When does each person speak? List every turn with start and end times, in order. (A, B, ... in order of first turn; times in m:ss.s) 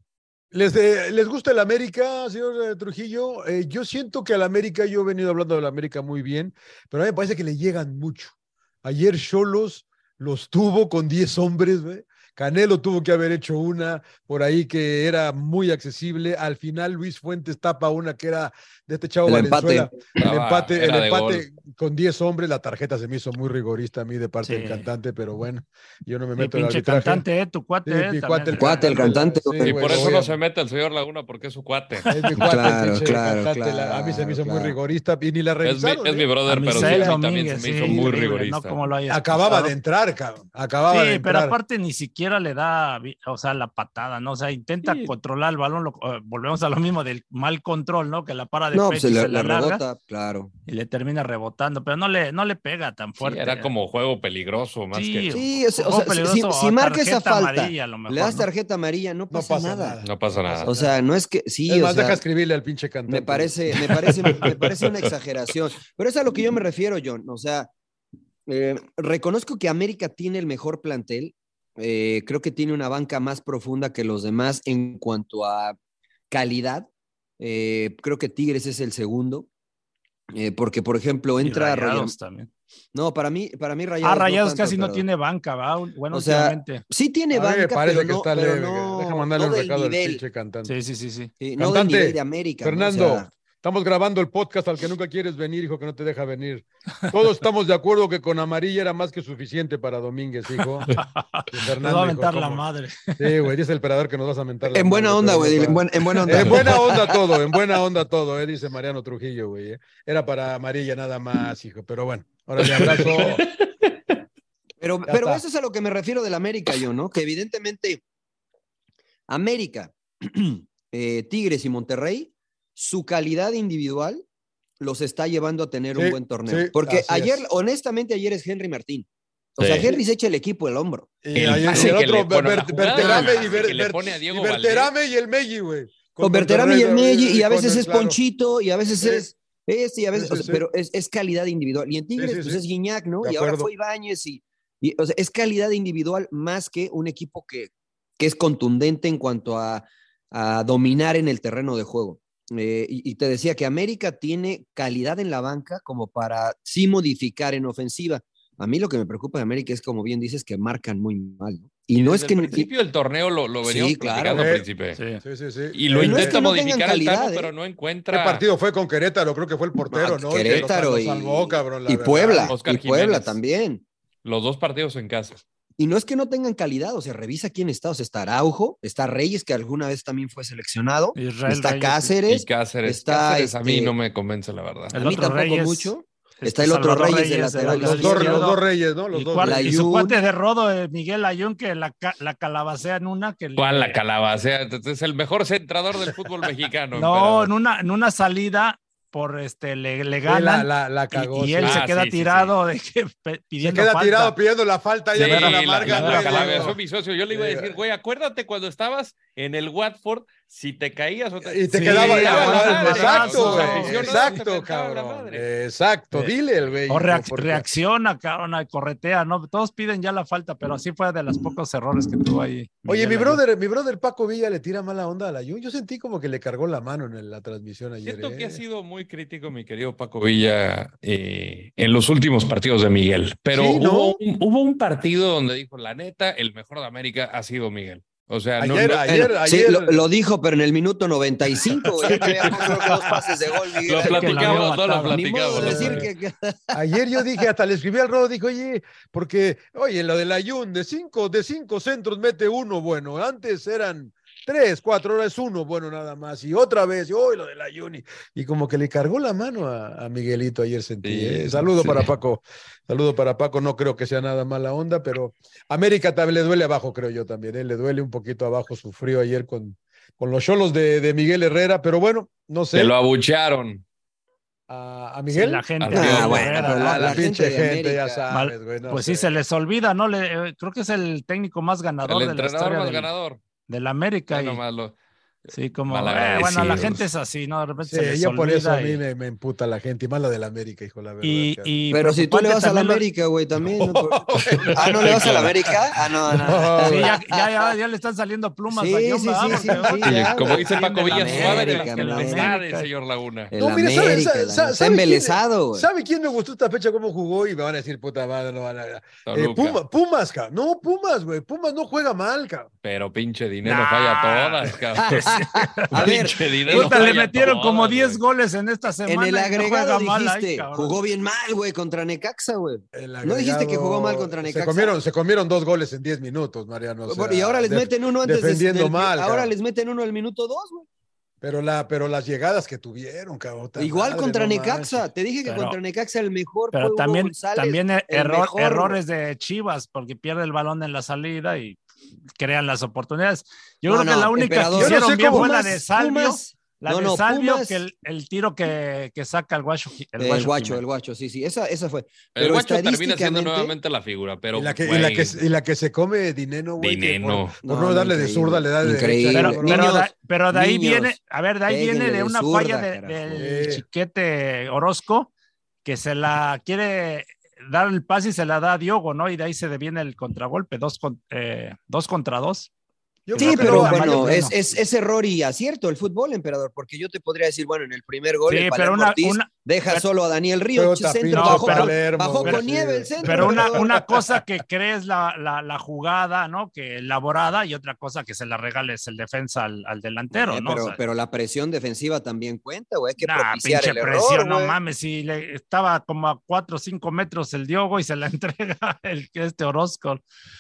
0:00.5-0:27.2 A
0:19.3-0:20.0 B
0:20.2-0:21.4 C
0:24.4-0:24.9 D
0:26.4-0:29.1 D
0:27.8-0:30.4 A
0:28.6-0:30.2 B
0:29.6-0:32.1 C
0:32.0-0:32.4 D
0:32.1-0:37.2 A
0:32.4-0:34.8 B
0:35.6-0:38.8 C
0:36.5-0:39.7 D
0:39.1-0:41.6 A
0:40.9-0:49.8 D
0:44.8-0:45.1 C
0:48.7-0:50.5 B
0:50.7-0:53.7 D
0:53.2-0:55.4 C
0:54.9-0:58.5 D
0:55.3-1:00.0 B
0:59.3-1:00.9 A
1:00.0-1:00.7 C
1:00.6-1:02.2 B
1:01.7-1:03.5 A
1:03.1-1:07.7 B
1:08.5-1:15.8 B
1:16.3-1:16.9 B
1:17.4-1:19.5 B
1:20.3-1:22.2 B
1:21.4-1:22.5 D
1:22.9-1:25.0 B
1:24.0-1:26.8 D
1:26.1-1:30.2 B
1:27.3-1:30.7 A
1:30.6-1:31.3 D
1:31.4-1:33.3 B
1:31.6-1:40.9 A
1:40.9-1:43.3 D
1:41.5-1:42.6 A
1:43.2-1:53.5 A
1:44.7-1:47.3 B
1:46.3-1:46.7 C
1:52.6-1:53.9 C
1:54.8-1:58.0 B
1:55.1-1:55.4 A
1:59.3-2:04.2 B
2:04.8-2:12.0 B
2:05.9-2:07.4 A
2:09.6-2:10.0 C
2:11.2-2:18.2 A
2:11.4-2:14.9 C
2:12.9-2:13.7 B
2:16.2-2:42.7 B
2:19.0-2:19.3 A
2:20.1-2:20.6 A
2:22.2-2:22.6 A
2:23.2-2:23.7 A
2:42.0-2:45.0 C
2:43.6-2:44.4 B
2:44.3-2:44.7 A
2:45.0-2:45.2 D
2:45.2-2:46.4 A
2:45.7-2:48.4 C
2:45.9-2:47.5 B
2:48.1-2:52.5 A
2:49.9-2:53.8 B
2:52.5-2:53.4 C
2:54.2-2:55.4 C
2:55.8-3:03.9 B
3:01.2-3:02.1 D
3:02.3-3:05.0 C
3:04.9-3:08.6 D
3:04.9-3:08.4 B
3:07.6-3:09.8 A
3:09.1-3:14.0 D
3:09.4-3:10.2 B
3:13.6-3:17.5 C
3:16.9-3:24.4 D
3:20.3-3:21.8 A
3:21.6-3:22.5 C
3:23.6-3:26.8 A
3:25.2-3:35.5 C
3:25.2-3:26.7 D
3:27.3-3:27.8 A
3:31.4-3:37.8 A
3:31.7-3:34.2 D
3:36.9-3:43.4 D
3:42.9-3:48.6 A
3:48.0-3:59.0 C
3:53.5-3:54.2 A
3:58.6-4:00.1 A
3:59.0-4:07.4 B
4:01.7-4:06.1 C
4:02.1-4:02.6 A
4:02.9-4:03.2 D
4:03.9-4:05.2 D
4:05.5-4:06.1 A
4:06.7-4:32.9 A
4:21.0-4:22.1 C
4:32.7-4:33.8 C
4:34.7-4:35.7 A
4:35.3-4:37.2 D
4:35.8-4:36.8 C
4:35.9-4:38.2 B
4:36.6-4:39.3 A
4:38.3-4:43.1 D
4:42.0-4:43.4 C
4:43.7-4:44.6 D
4:44.3-4:47.0 C
4:45.5-4:49.0 D
4:47.8-4:51.7 A
4:51.2-4:53.0 D
4:51.9-4:57.5 B
4:53.6-4:55.5 A
4:54.6-4:55.7 C
4:56.4-4:57.1 A
4:56.8-5:02.9 D
4:58.7-5:02.6 B
4:59.5-5:00.0 A
5:00.0-5:03.5 C
5:03.5-5:05.9 B
5:03.6-5:12.7 A
5:09.3-5:09.8 C
5:12.8-5:15.3 C
5:13.6-5:21.0 D
5:15.0-5:17.2 B
5:15.9-5:18.2 C
5:19.1-5:25.0 B
5:22.9-5:29.5 A
5:27.1-5:30.9 B
5:31.4-5:35.1 A
5:33.8-5:39.0 B
5:35.4-5:35.8 D
5:36.7-5:41.8 D
5:42.4-5:50.8 D
5:43.9-5:47.8 B
5:44.7-5:45.6 A
5:50.2-5:53.8 B
5:52.3-5:55.4 C
5:54.5-5:59.9 A
5:56.8-5:57.6 C
5:57.6-6:01.2 B
5:59.3-6:05.3 D
6:01.7-6:03.5 B
6:03.4-6:03.8 A
6:05.8-6:12.7 D
6:13.3-6:14.5 A
6:13.3-6:14.6 D
6:13.4-6:23.9 B
6:18.5-6:20.0 D
6:20.8-6:24.4 A
6:21.3-6:22.7 D
6:23.2-6:31.0 D
6:30.3-6:34.8 B
6:33.2-6:40.2 D